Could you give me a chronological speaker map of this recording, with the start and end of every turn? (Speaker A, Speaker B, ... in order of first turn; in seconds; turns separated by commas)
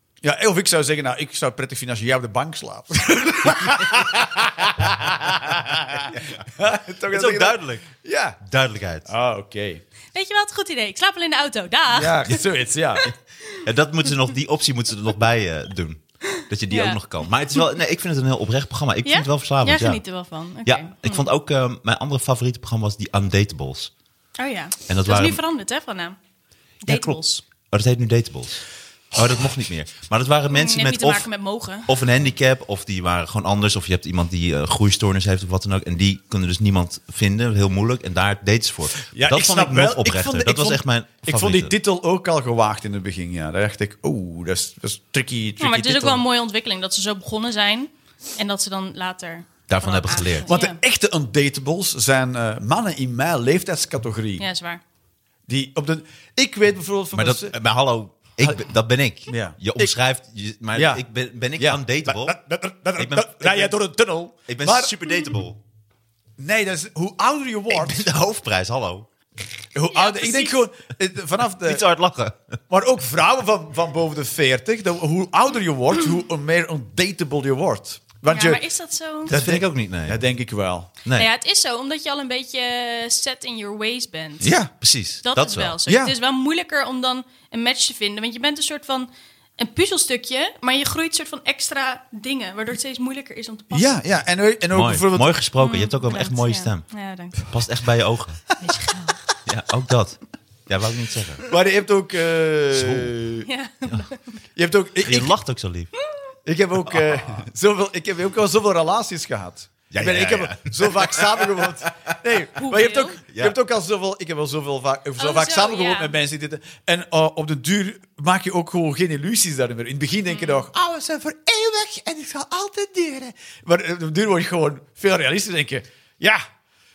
Speaker A: 0.2-8.4, Speaker B: 5.2-7.8, Speaker B: 8.4-9.1, Speaker A: 9.1-9.8, Speaker C: 10.1-12.3, Speaker A: 11.9-13.1, Speaker B: 13.1-20.0, Speaker C: 16.7-17.0, Speaker C: 19.0-21.3, Speaker B: 20.6-23.9, Speaker C: 24.4-26.2, Speaker B: 24.9-25.4, Speaker C: 26.8-27.4, Speaker B: 26.9-31.3, Speaker C: 30.5-31.9, Speaker B: 31.8-41.7, Speaker A: 39.0-46.2, Speaker C: 45.6-50.8, Speaker B: 49.7-50.5, Speaker A: 50.5-54.5, Speaker C: 54.4-54.8, Speaker A: 55.5-57.5, Speaker B: 57.1-62.4, Speaker A: 59.3-59.6, Speaker A: 60.7-61.0, Speaker A: 61.6-65.0, Speaker B: 63.0-63.8, Speaker B: 64.5-65.6, Speaker A: 66.4-68.1, Speaker B: 67.7-69.1, Speaker A: 69.7-71.8, Speaker C: 69.9-70.6, Speaker B: 71.6-72.6, Speaker A: 72.7-78.6, Speaker C: 78.3-79.3, Speaker A: 79.2-80.9, Speaker B: 79.3-80.2, Speaker C: 81.1-84.5, Speaker A: 84.4-84.7, Speaker B: 84.8-85.8, Speaker C: 85.2-93.9, Speaker A: 85.9-86.1, Speaker A: 93.7-95.3, Speaker B: 94.7-98.4, Speaker C: 95.6-97.5, Speaker C: 98.6-99.2, Speaker B: 99.5-101.4, Speaker A: 101.5-103.5, Speaker B: 102.7-103.1, Speaker C: 103.4-104.4, Speaker A: 104.5-105.3, Speaker B: 105.0-105.9, Speaker A: 106.5-126.4, Speaker B: 106.9-107.4, Speaker B: 109.9-111.8, Speaker C: 112.5-113.2, Speaker B: 113.3-113.5, Speaker C: 115.2-116.1, Speaker C: 120.3-120.6